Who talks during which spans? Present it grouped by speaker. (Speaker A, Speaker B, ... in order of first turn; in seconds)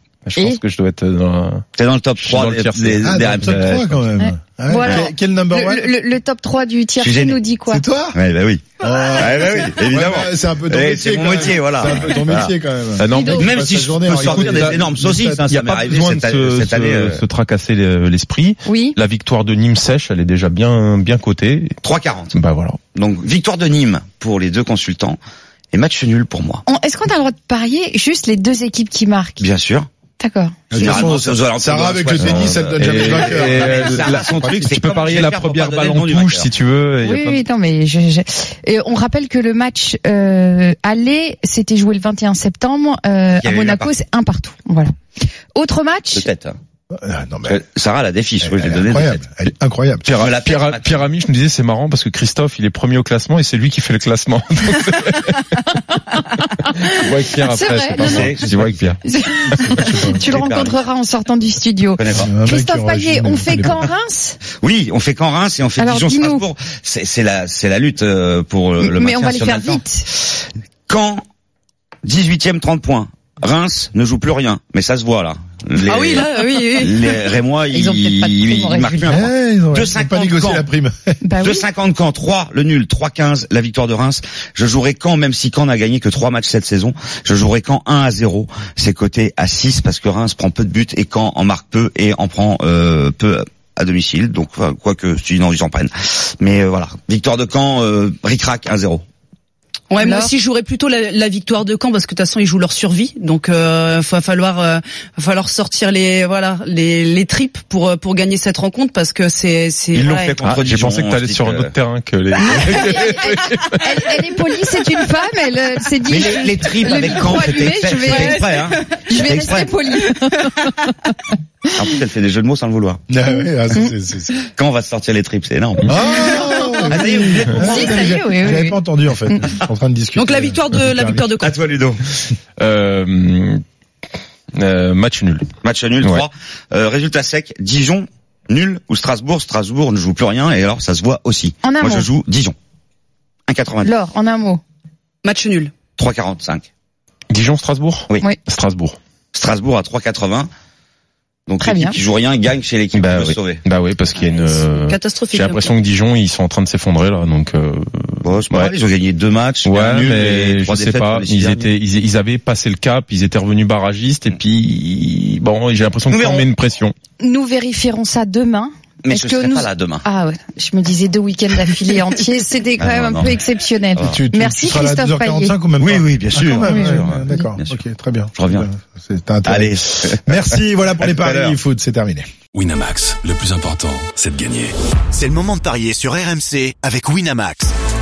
Speaker A: 0.2-1.6, 2.2-4.0, 13.0-13.4, 14.0-21.7, 22.3-22.8, 32.1-37.4, 50.1-56.0, 56.6-59.0, 59.5-60.0, 110.4-114.1, 125.9-126.2, 132.6-133.6, 134.6-135.5, 147.3-149.0, 152.9-158.7, 159.6-166.9
Speaker B: 0.4-0.6, 4.2-7.8, 13.1-13.5, 18.7-19.0, 26.7-29.5, 30.2-31.0, 37.0-44.9, 45.5-46.3, 57.5-58.3, 59.0-64.4, 65.8-66.5, 68.8-70.1, 77.7-79.1, 81.2-81.7, 100.0-100.3, 112.4-121.3, 123.3-124.4, 126.2-127.0, 127.6-129.5, 141.6-142.1, 143.8-144.6, 151.6-152.0, 167.2-175.5, 176.6-177.5
Speaker C: 1.8-3.6, 4.8-5.1, 7.0-7.4, 8.1-12.5, 13.3-17.2, 21.8-22.3, 22.9-25.2, 25.7-26.6, 29.4-29.9, 30.7-36.5, 43.4-43.9, 46.1-46.6, 47.5-49.2, 50.1-51.1, 57.9-59.0, 60.3-60.8, 62.0-62.3, 64.6-71.2, 72.0-80.7, 81.4-99.0, 109.9-111.8, 116.1-119.7, 121.8-123.0, 124.5-125.9, 126.9-128.1, 131.4-132.0, 135.6-142.6, 143.5-143.9, 146.0-146.7, 149.3-150.5, 151.5-153.6, 158.2-161.7, 166.1-166.5, 169.1-170.0, 172.8-173.4, 173.9-174.2, 175.8-177.8, 178.3-178.7, 179.4-181.6
Speaker D: 3.0-5.9, 7.7-8.2, 8.8-15.5, 30.7-34.7, 47.0-47.6, 48.4-50.1, 59.8-60.3, 62.2-63.8, 79.1-81.1, 123.1-124.3, 125.9-131.3, 174.0-182.3
Speaker E: 75.9-77.2, 99.9-110.4, 118.0-118.7, 130.2-131.6, 145.2-145.7, 154.2-155.8
Speaker F: 182.5-184.8
Speaker G: 185.1-187.8